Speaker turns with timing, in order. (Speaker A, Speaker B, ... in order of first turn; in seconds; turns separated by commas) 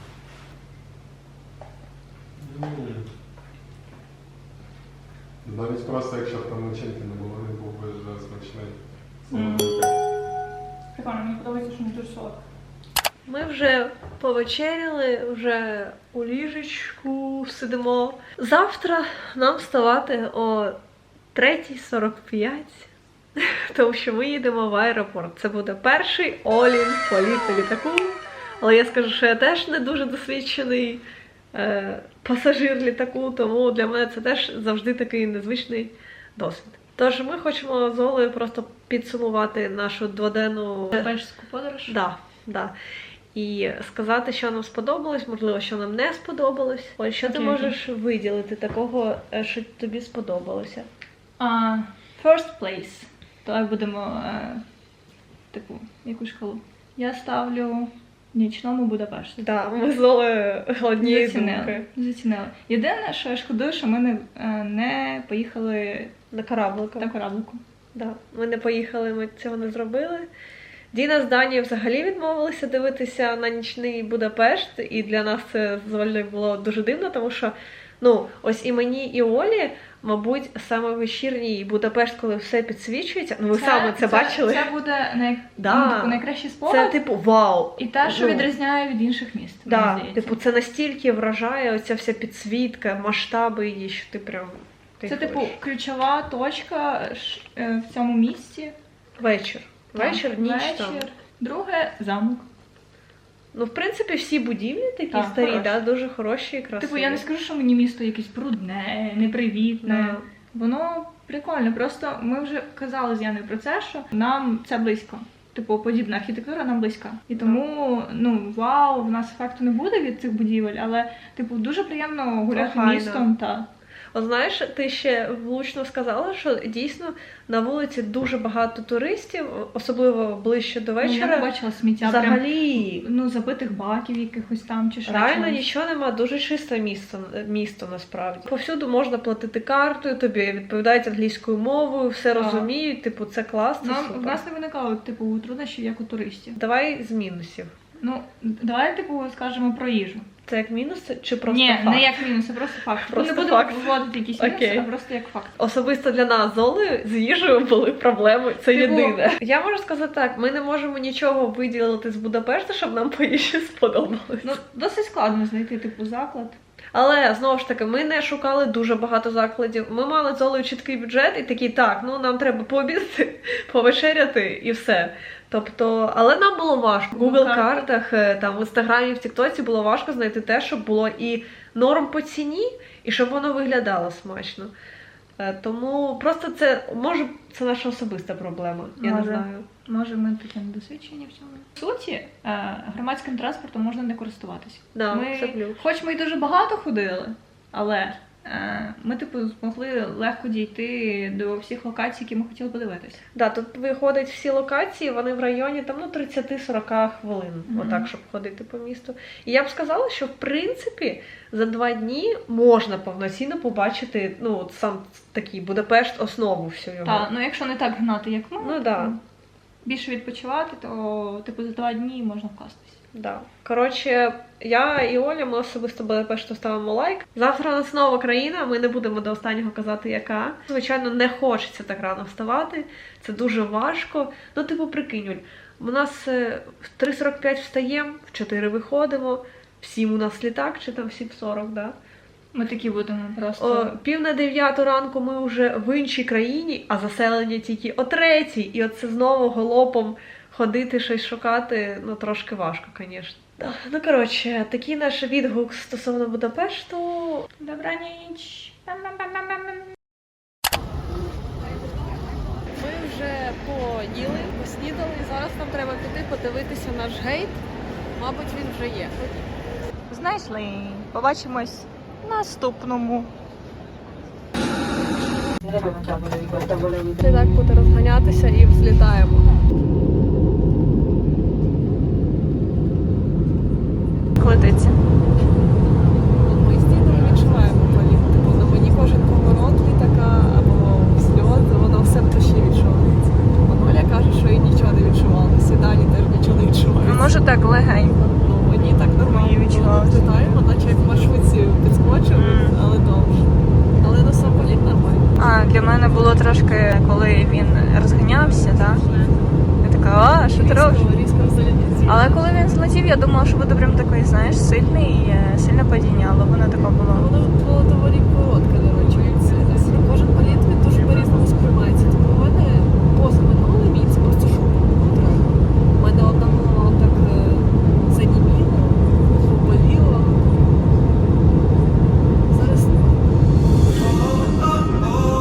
Speaker A: 2.4-3.1, Speaker A: 5.4-9.9, Speaker B: 9.3-9.8, Speaker B: 10.9-12.4, Speaker C: 13.3-20.8, Speaker C: 21.3-41.1, Speaker B: 40.9-42.0, Speaker C: 41.9-42.7, Speaker C: 43.3-50.9, Speaker B: 47.2-47.8, Speaker B: 51.4-54.6, Speaker B: 55.5-59.4, Speaker C: 59.4-61.9, Speaker B: 61.0-66.2, Speaker C: 66.3-67.1, Speaker B: 67.0-67.6, Speaker C: 67.9-70.3, Speaker C: 70.9-84.7, Speaker B: 83.5-87.0, Speaker C: 85.6-88.5, Speaker B: 87.8-90.4, Speaker C: 89.7-95.6, Speaker B: 95.1-98.8, Speaker C: 99.2-101.1, Speaker B: 100.0-102.5, Speaker C: 103.5-107.2, Speaker B: 105.1-105.8, Speaker B: 106.8-123.7, Speaker C: 109.8-110.2, Speaker C: 117.3-117.6, Speaker C: 122.5-123.3, Speaker C: 124.1-131.5, Speaker B: 131.0-135.7, Speaker C: 132.0-133.1, Speaker C: 135.1-144.4, Speaker B: 142.4-142.7, Speaker B: 143.8-146.6, Speaker C: 146.6-147.7, Speaker B: 148.0-150.3, Speaker C: 150.5-152.2, Speaker B: 151.5-155.6, Speaker C: 153.0-154.9, Speaker C: 155.6-164.6, Speaker B: 158.7-159.3, Speaker B: 164.4-166.6, Speaker C: 166.9-184.7, Speaker B: 177.1-177.9, Speaker C: 185.4-189.7, Speaker B: 189.0-203.2, Speaker C: 194.9-195.8, Speaker C: 203.3-217.3, Speaker B: 207.7-208.1, Speaker B: 217.1-219.2, Speaker C: 218.6-219.2, Speaker B: 219.8-223.0, Speaker C: 223.1-242.0, Speaker B: 242.5-243.9, Speaker C: 243.6-257.5, Speaker B: 257.6-259.8, Speaker D: 262.8-267.6, Speaker D: 268.2-269.4, Speaker B: 270.1-273.3, Speaker D: 277.2-279.5, Speaker B: 284.4-285.0, Speaker D: 286.4-297.3, Speaker B: 297.0-298.4, Speaker D: 298.4-303.4, Speaker B: 299.2-300.4, Speaker B: 302.4-302.8, Speaker D: 304.0-305.3, Speaker B: 305.4-309.0, Speaker B: 309.8-311.1, Speaker D: 310.5-312.4, Speaker B: 312.1-317.3, Speaker D: 317.1-330.6, Speaker D: 332.5-333.2